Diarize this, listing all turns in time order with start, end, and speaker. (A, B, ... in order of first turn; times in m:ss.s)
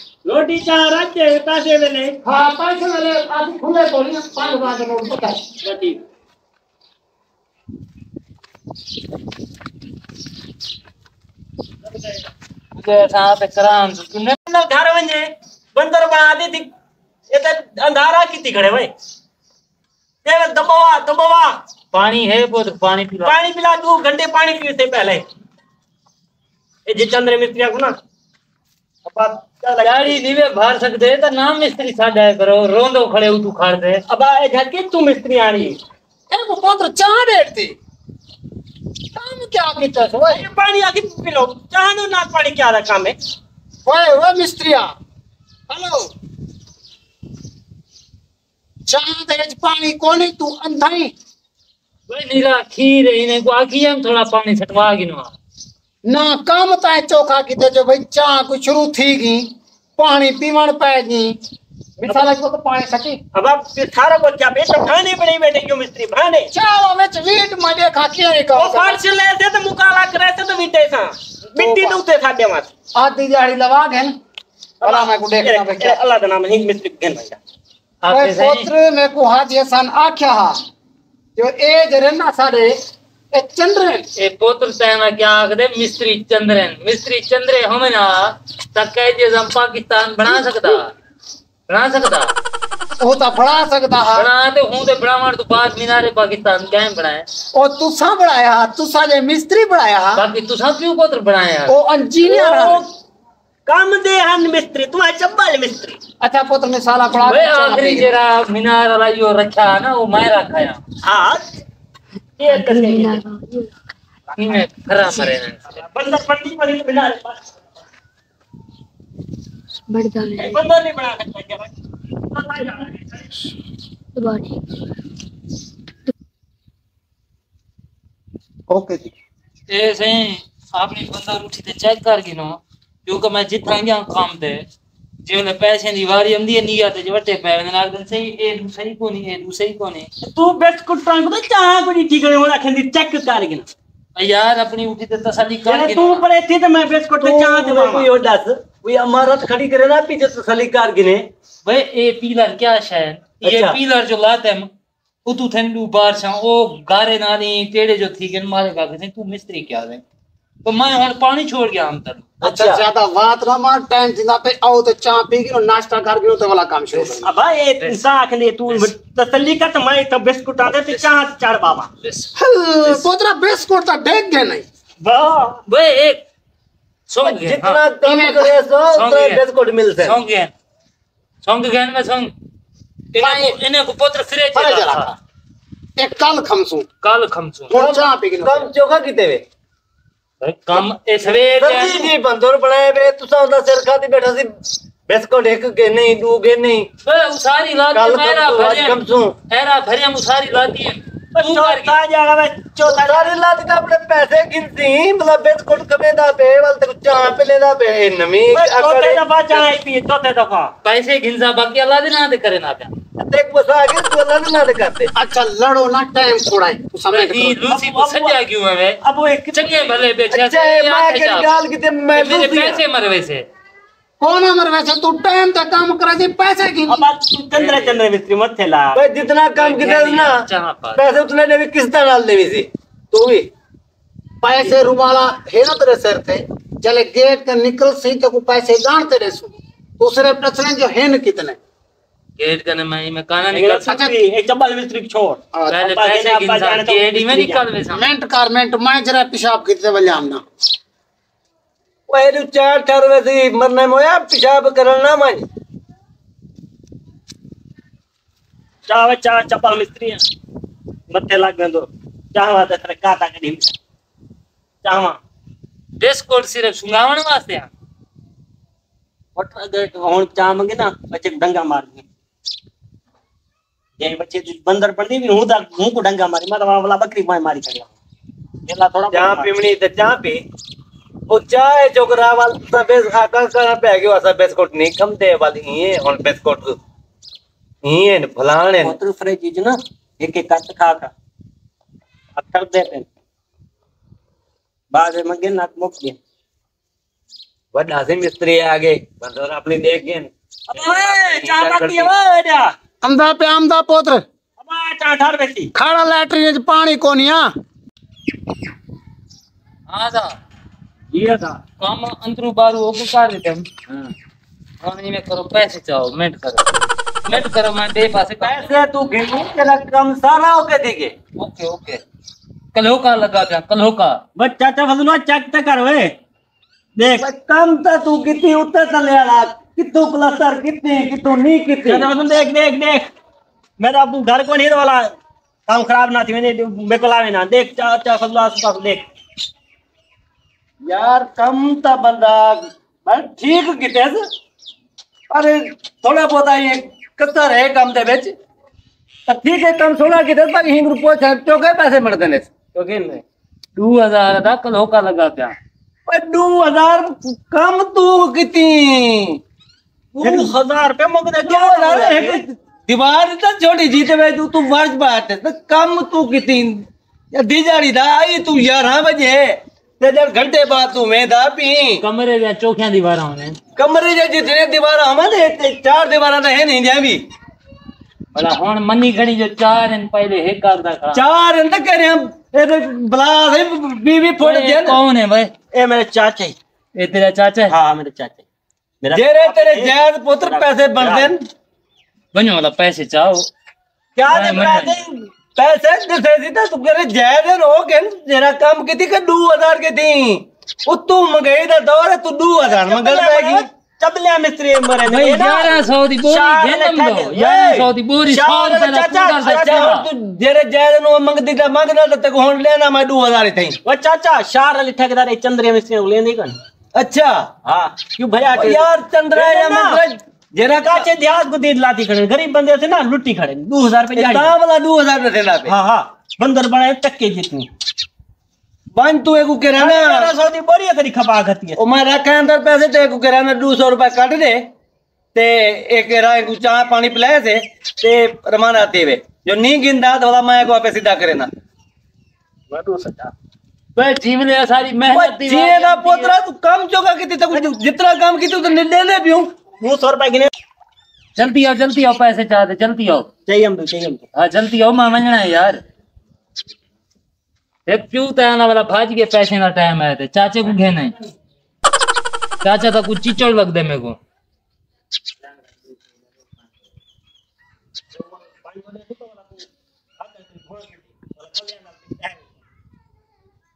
0:00.2-0:02.2 A
0:02.2-0:05.4 B
0:05.6-0:06.0 A
0:11.9-0:12.2 A
0:12.8-0:14.4 C
0:14.4-0:16.7 A
0:17.3-0:18.9 A
0:20.2-0:21.6 A
0:21.9-0:23.4 C
0:23.2-0:25.2 A
0:26.8-0:27.9 A
0:29.0-0:30.2 A
0:29.8-0:34.0 C
0:34.1-0:35.8 A
0:36.3-0:37.8 B
0:39.1-0:40.5 B
0:40.3-0:43.2 A
0:43.8-0:44.9 B
0:45.7-0:46.1 B
0:48.9-0:51.1 B
0:52.1-0:55.3 C
0:56.0-0:59.5 B
1:00.0-1:01.4 B
1:02.0-1:02.3 A
1:02.0-1:03.2 B
1:03.3-1:06.5 A
1:06.5-1:09.0 B
1:08.5-1:12.7 A
1:11.6-1:12.0 B
1:13.0-1:14.1 B
1:14.8-1:17.4 A
1:14.8-1:16.0 B
1:18.0-1:18.7 C
1:18.1-1:20.6 B
1:21.4-1:22.8 B
1:23.3-1:24.0 B
1:24.2-1:30.9 C
1:30.2-1:30.8 B
1:31.7-1:32.3 C
1:33.0-1:34.3 B
1:34.1-1:37.3 C
1:37.5-1:40.2 B
1:40.1-1:41.7 C
1:41.7-1:42.8 B
1:42.2-1:42.8 A
1:43.7-1:46.0 A
1:46.2-1:48.1 B
1:47.2-1:50.8 C
1:51.0-1:51.4 A
1:52.4-1:53.2 A
1:52.5-1:53.7 D
1:54.4-1:55.8 C
1:55.7-1:57.4 A
1:59.9-2:00.6 D
2:00.4-2:01.7 A
2:02.3-2:03.3 A
2:04.2-2:04.6 D
2:08.7-2:09.1 E
2:09.7-2:14.7 C
2:15.2-2:20.1 C
2:20.2-2:23.7 A
2:24.2-2:26.2 C
2:25.6-2:28.1 A
2:27.2-2:31.3 E
2:31.6-2:34.7 C
2:33.4-2:33.8 A
2:35.2-2:40.0 C
2:40.6-2:42.2 C
2:42.4-2:47.3 B
2:42.4-2:42.8 E
2:47.2-2:51.9 A
2:52.0-2:52.3 C
2:52.4-2:54.6 B
2:55.0-2:55.6 A
2:55.7-2:56.2 C
2:57.1-2:57.8 C
2:57.2-3:00.2 E
2:58.0-2:58.5 B
2:58.9-2:59.4 C
3:00.0-3:00.5 C
3:01.4-3:02.3 C
3:03.1-3:05.1 C
3:03.2-3:03.6 B
3:04.5-3:05.2 B
3:06.0-3:06.8 B
3:07.0-3:07.7 C
3:07.7-3:08.7 B
3:07.7-3:09.4 E
3:10.4-3:12.1 C
3:11.3-3:14.5 E
3:15.1-3:16.9 E
3:17.0-3:21.9 C
3:17.9-3:19.4 E
3:21.3-3:23.3 A
3:22.8-3:29.6 E
3:28.5-3:30.7 A
3:30.8-3:32.9 C
3:33.2-3:35.1 E
3:35.1-3:37.6 B
3:37.1-3:39.0 C
3:37.6-3:38.4 A
3:39.0-3:40.0 A
3:39.5-3:41.6 C
3:40.3-3:42.8 E
3:42.1-3:43.4 C
3:44.2-3:47.0 B
3:46.9-3:49.0 A
3:47.6-3:48.0 C
3:48.9-3:50.4 E
3:49.5-3:51.2 C
3:51.0-3:53.5 E
3:54.4-4:01.6 B
4:02.4-4:04.0 C
4:03.5-4:07.6 A
4:05.5-4:05.8 B
4:05.7-4:08.0 C
4:07.9-4:10.4 B
4:12.1-4:15.4 E
4:18.9-4:20.2 A
4:21.1-4:23.7 A
4:24.8-4:25.2 A
4:26.0-4:27.7 C
4:29.4-4:32.0 A
4:34.0-4:37.9 A
4:38.7-4:39.5 A
4:39.1-4:40.4 E
4:41.3-4:46.8 E
4:47.8-4:48.9 E
4:48.8-4:51.1 A
4:52.4-4:53.1 A
4:54.9-4:56.2 A
4:57.7-5:02.1 E
5:00.7-5:02.7 A
5:03.0-5:04.2 B
5:04.6-5:05.7 A
5:05.7-5:07.5 B
5:09.9-5:10.4 C
5:11.1-5:11.6 A
5:11.8-5:13.7 C
5:14.8-5:16.7 C
5:17.2-5:18.8 C
5:18.4-5:21.1 E
5:21.4-5:22.0 C
5:22.7-5:24.2 C
5:24.4-5:26.1 A
5:27.0-5:27.2 A
5:27.2-5:32.1 E
5:31.8-5:33.1 A
5:33.8-5:35.1 A
5:35.7-5:39.0 A
5:40.8-5:44.2 E
5:45.3-5:48.3 E
5:49.3-5:52.5 E
5:52.7-5:53.2 A
5:53.8-5:55.6 C
5:56.1-5:59.4 E
6:00.1-6:00.5 E
6:00.2-6:02.4 A
6:01.4-6:12.0 E
6:12.0-6:13.6 C
6:13.8-6:17.2 E
6:18.3-6:21.2 C
6:21.1-6:25.0 E
6:24.4-6:25.5 C
6:25.7-6:26.5 A
6:27.0-6:27.7 C
6:27.7-6:28.4 A
6:29.0-6:31.3 A
6:29.1-6:31.4 E
6:32.3-6:33.5 C
6:34.2-6:35.0 A
6:34.3-6:34.9 C
6:34.4-6:43.6 E
6:42.6-6:50.0 A
6:45.1-6:50.0 C
6:49.4-6:53.8 E
6:53.8-6:56.6 A
6:56.9-6:57.5 E
6:57.6-7:00.0 A
6:58.5-7:01.1 E
7:00.8-7:04.5 A
7:04.1-7:05.7 E
7:05.6-7:07.7 A
7:08.9-7:10.3 E
7:09.8-7:11.8 A
7:11.8-7:14.7 E
7:15.3-7:21.5 E
7:22.7-7:23.3 A
7:24.0-7:26.4 C
7:25.1-7:29.5 E
7:29.8-7:30.5 A
7:31.4-7:33.3 C
7:33.5-7:34.2 A
7:34.3-7:35.8 C
7:37.8-7:41.1 C
7:42.6-7:44.2 C
7:48.1-7:49.7 A
7:50.2-7:52.4 A